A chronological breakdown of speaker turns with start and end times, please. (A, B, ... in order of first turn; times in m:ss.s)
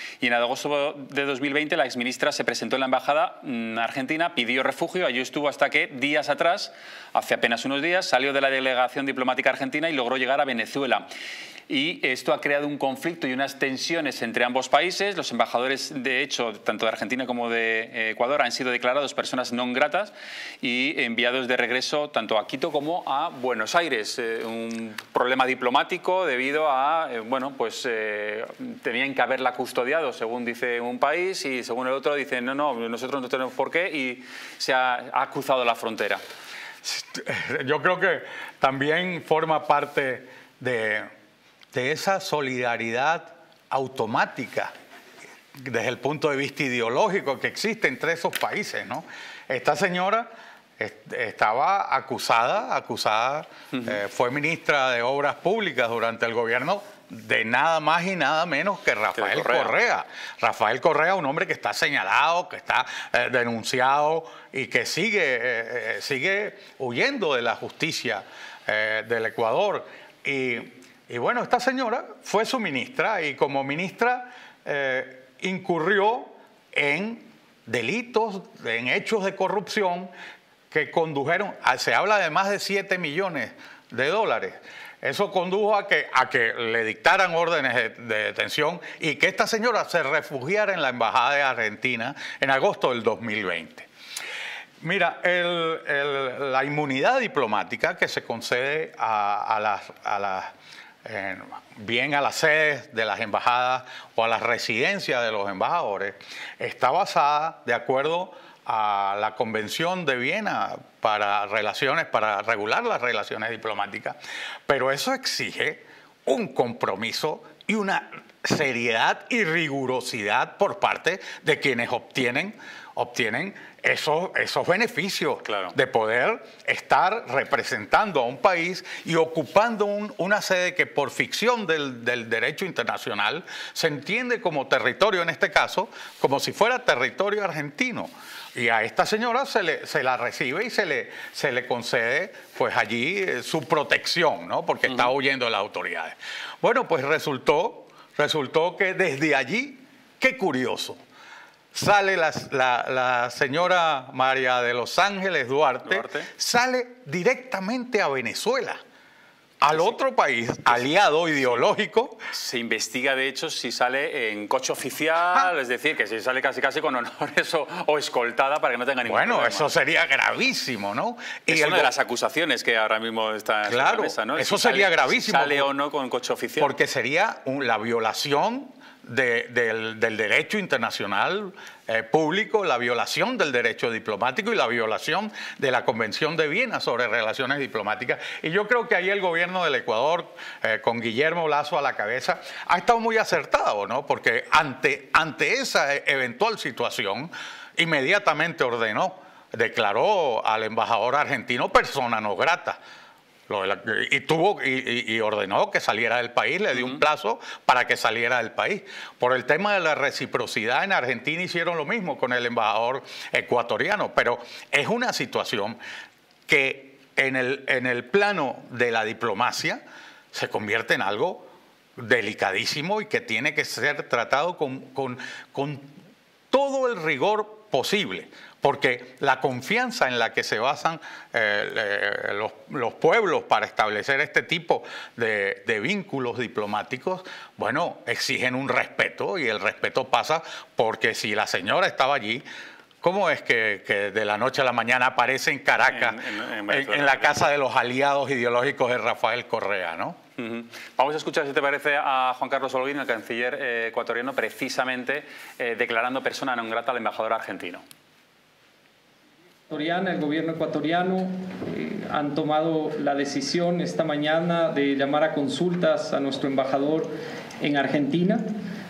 0:00.2-0:11.0 A
0:11.7-0:36.2 A
0:36.8-0:41.1 B
0:41.7-0:44.7 B
0:45.5-1:20.1 B
0:59.2-0:59.7 A
1:20.7-1:33.9 B
1:34.8-2:31.0 B
2:05.4-2:05.8 A
2:31.7-2:38.8 B
2:35.8-2:36.3 A
2:39.6-2:42.2 B
2:39.7-2:40.0 A
2:40.6-2:40.9 A
2:42.3-2:49.7 A
2:49.0-2:51.9 B
2:51.5-2:56.7 A
2:53.6-2:55.7 B
2:56.6-3:22.8 B
3:23.5-3:35.8 B
3:26.7-3:27.0 A
3:36.5-3:45.9 B
3:46.5-4:02.4 B
4:03.0-4:10.2 B
4:05.8-4:07.4 A
4:10.4-4:17.8 A
4:19.7-4:27.1 C
4:27.6-4:28.5 C